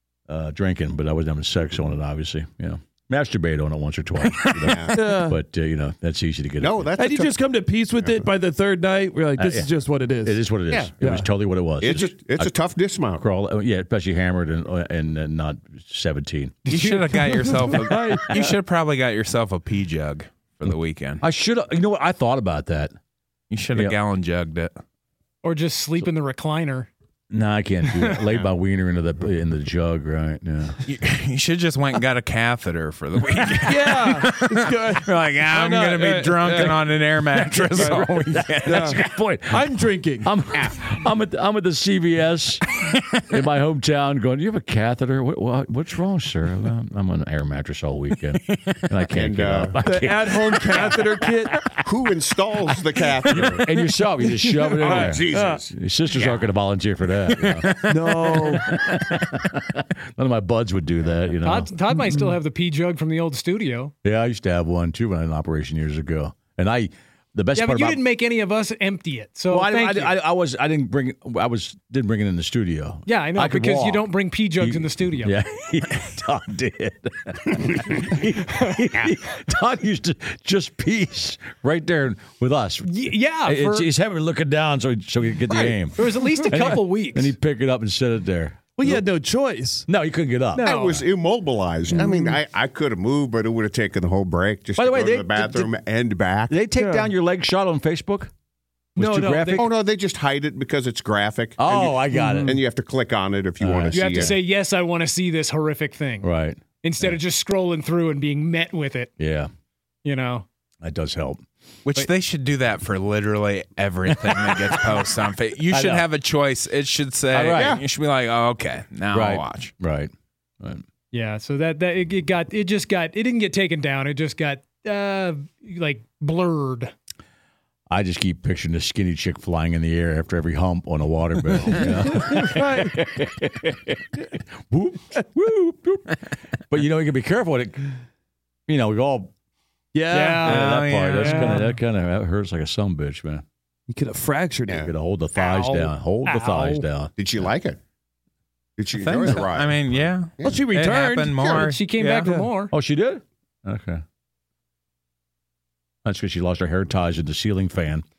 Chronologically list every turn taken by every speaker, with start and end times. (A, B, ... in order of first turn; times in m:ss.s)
0:00.3-0:06.9 A
0:04.6-0:05.0 B
0:04.9-0:05.4 C
0:06.6-0:07.4 B
0:07.0-0:10.5 C
0:08.0-0:08.2 B
0:09.4-0:09.7 A
0:10.2-0:12.5 A
0:11.0-0:11.3 C
0:11.8-0:13.2 B
0:13.1-0:16.8 A
0:16.7-0:21.2 D
0:16.7-0:18.5 C
0:18.3-0:18.5 A
0:21.2-0:22.9 A
0:23.5-0:24.7 D
0:25.4-0:26.9 E
0:27.3-0:30.8 A
0:30.8-0:39.0 D
0:33.6-0:36.8 C
0:37.3-0:42.6 A
0:37.8-0:38.1 C
0:38.6-0:40.3 C
0:43.2-0:51.0 A
0:48.5-0:48.8 D
0:49.1-0:50.1 B
0:49.8-0:51.5 C
0:51.8-0:53.7 B
0:53.3-1:01.7 A
0:54.4-0:55.6 C
0:54.7-0:55.7 B
0:57.3-0:58.5 D
0:57.8-0:58.7 C
1:01.4-1:03.9 E
1:01.9-1:02.4 C
1:04.0-1:08.0 A
1:07.6-1:10.1 E
1:09.5-1:29.0 A
1:13.0-1:15.4 E
1:22.8-1:23.9 E
1:25.5-1:27.3 E
1:26.3-1:26.6 C
1:28.8-1:29.8 C
1:29.8-1:30.7 A
1:30.6-1:31.0 E
1:30.6-1:36.6 B
1:31.9-1:32.4 C
1:34.8-1:35.7 A
1:36.5-1:38.3 A
1:36.7-1:37.1 C
1:39.0-1:39.7 A
1:39.0-1:39.7 E
1:39.6-1:44.4 B
1:41.6-1:42.6 A
1:42.1-1:42.6 C
1:43.6-1:44.4 A
1:43.9-1:46.3 E
1:46.2-1:47.2 A
1:46.8-1:49.1 E
1:49.2-1:49.5 A
1:50.0-1:50.4 E
1:50.8-1:51.4 A
1:51.8-1:59.7 D
1:54.1-1:54.9 A
1:55.7-1:56.1 A
1:57.3-1:57.8 A
1:57.6-1:57.8 B
1:59.1-2:00.8 A
2:01.1-2:06.9 E
2:07.9-2:16.1 A
2:11.6-2:13.0 C
2:16.7-2:17.9 A
2:18.7-2:19.3 A
2:19.9-2:20.6 C
2:20.1-2:20.6 E
2:20.4-2:21.4 D
2:20.4-2:23.4 A
2:21.2-2:21.6 E
2:23.9-2:24.9 C
2:24.7-2:27.1 A
2:25.4-2:26.9 E
2:27.2-2:27.8 B
2:28.8-2:30.6 B
2:28.9-2:32.4 D
2:30.4-2:31.6 C
2:31.4-2:31.6 B
2:31.5-2:32.7 E
2:32.7-2:34.0 A
2:36.0-2:38.0 A